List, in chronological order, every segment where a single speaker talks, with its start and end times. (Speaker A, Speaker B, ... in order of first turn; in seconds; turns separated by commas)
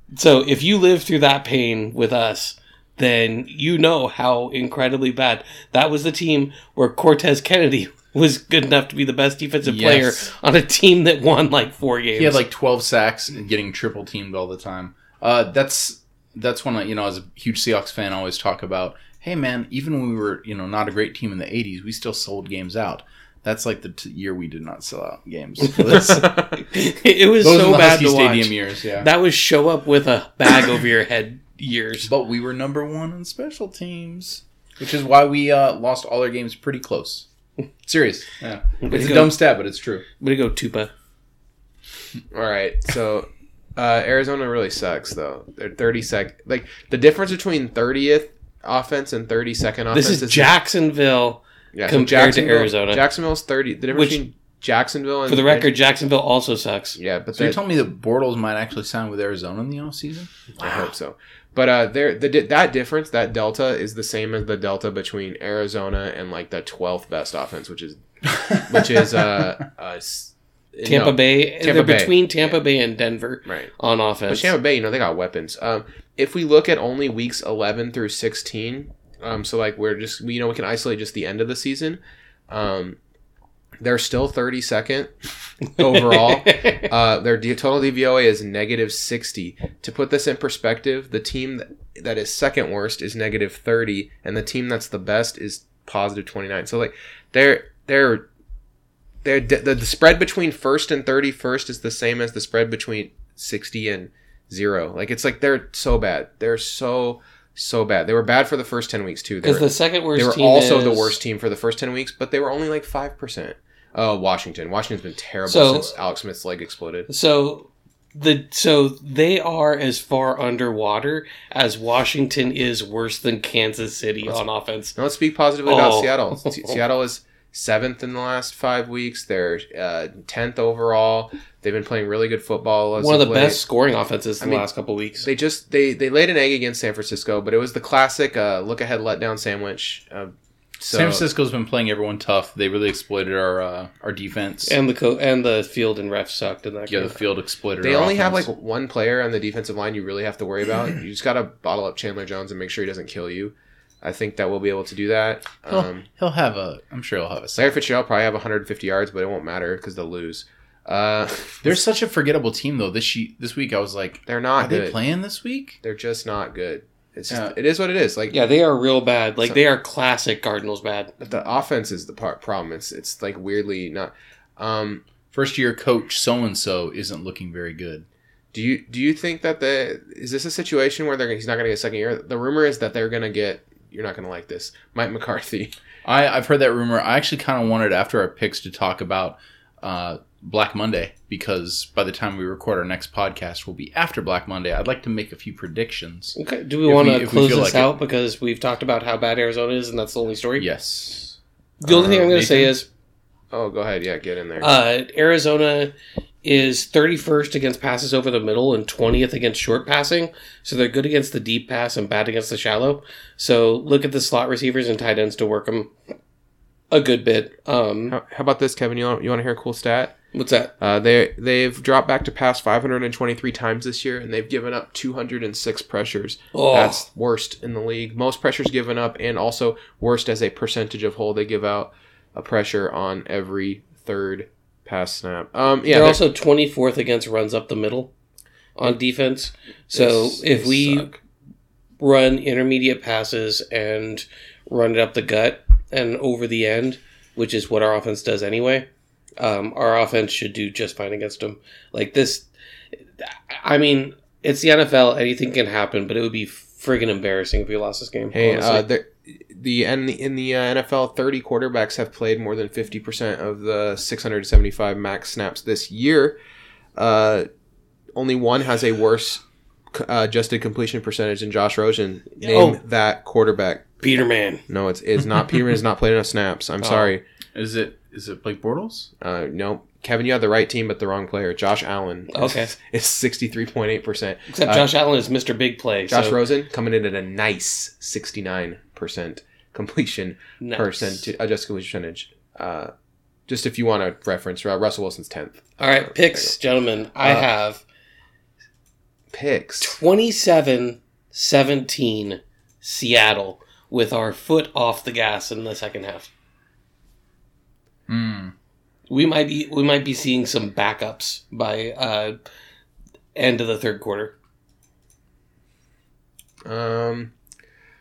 Speaker A: 0.1-12.4, Speaker B: 9.6-10.2, Speaker B: 12.2-26.3, Speaker A: 25.7-32.1, Speaker C: 26.0-26.5, Speaker B: 27.4-29.1, Speaker B: 32.0-37.2, Speaker B: 37.8-40.0, Speaker A: 38.8-39.4, Speaker A: 40.2-40.9, Speaker C: 42.3-50.5, Speaker A: 49.9-53.0, Speaker C: 51.7-55.7, Speaker A: 53.9-54.2, Speaker A: 55.3-57.0, Speaker C: 57.0-57.6, Speaker B: 57.3-60.7, Speaker C: 60.6-72.6, Speaker B: 68.3-69.5, Speaker A: 70.8-74.5, Speaker C: 73.5-73.7, Speaker C: 74.3-83.0, Speaker C: 83.8-85.1, Speaker C: 85.7-98.3, Speaker A: 85.8-86.9, Speaker C: 99.2-117.1, Speaker A: 109.4-111.2, Speaker A: 115.5-115.9, Speaker A: 117.1-125.0, Speaker C: 124.9-133.6, Speaker A: 125.7-126.5, Speaker A: 133.0-135.3, Speaker C: 134.4-134.7, Speaker C: 135.2-141.2, Speaker B: 140.9-144.8, Speaker A: 144.7-147.2, Speaker B: 146.9-148.5, Speaker C: 147.8-156.1, Speaker B: 155.7-157.8, Speaker C: 157.5-161.8, Speaker B: 161.6-165.8, Speaker C: 164.3-165.0, Speaker C: 165.8-168.4, Speaker A: 168.3-171.1, Speaker C: 171.2-175.0, Speaker B: 175.3-178.1, Speaker C: 178.5-185.7, Speaker B: 186.0-197.9, Speaker A: 196.3-200.7, Speaker B: 200.6-201.3, Speaker A: 201.8-202.8, Speaker B: 201.9-202.7, Speaker C: 201.9-202.3, Speaker C: 203.5-204.7, Speaker A: 204.6-215.9, Speaker A: 216.9-218.2, Speaker C: 218.1-220.1, Speaker A: 220.3-220.7, Speaker C: 220.8-236.2, Speaker A: 226.5-227.1, Speaker A: 235.9-238.1, Speaker A: 238.8-241.1, Speaker C: 239.9-241.2, Speaker A: 242.0-248.9, Speaker A: 249.4-252.5, Speaker A: 253.2-258.9, Speaker C: 258.3-266.4, Speaker C: 266.9-267.5, Speaker C: 268.1-269.4, Speaker C: 269.9-273.9, Speaker A: 272.4-272.8, Speaker A: 274.0-274.6, Speaker C: 274.7-277.2, Speaker A: 276.8-277.1, Speaker B: 277.5-279.1, Speaker C: 279.2-284.9, Speaker A: 282.3-282.7, Speaker A: 284.5-286.4, Speaker C: 286.1-292.9, Speaker A: 290.6-291.3, Speaker C: 293.5-296.5, Speaker A: 295.8-297.8, Speaker C: 297.2-297.5, Speaker C: 299.3-299.9, Speaker A: 299.8-306.3, Speaker B: 308.1-308.5, Speaker A: 309.1-312.4, Speaker A: 313.3-314.3, Speaker C: 316.6-317.3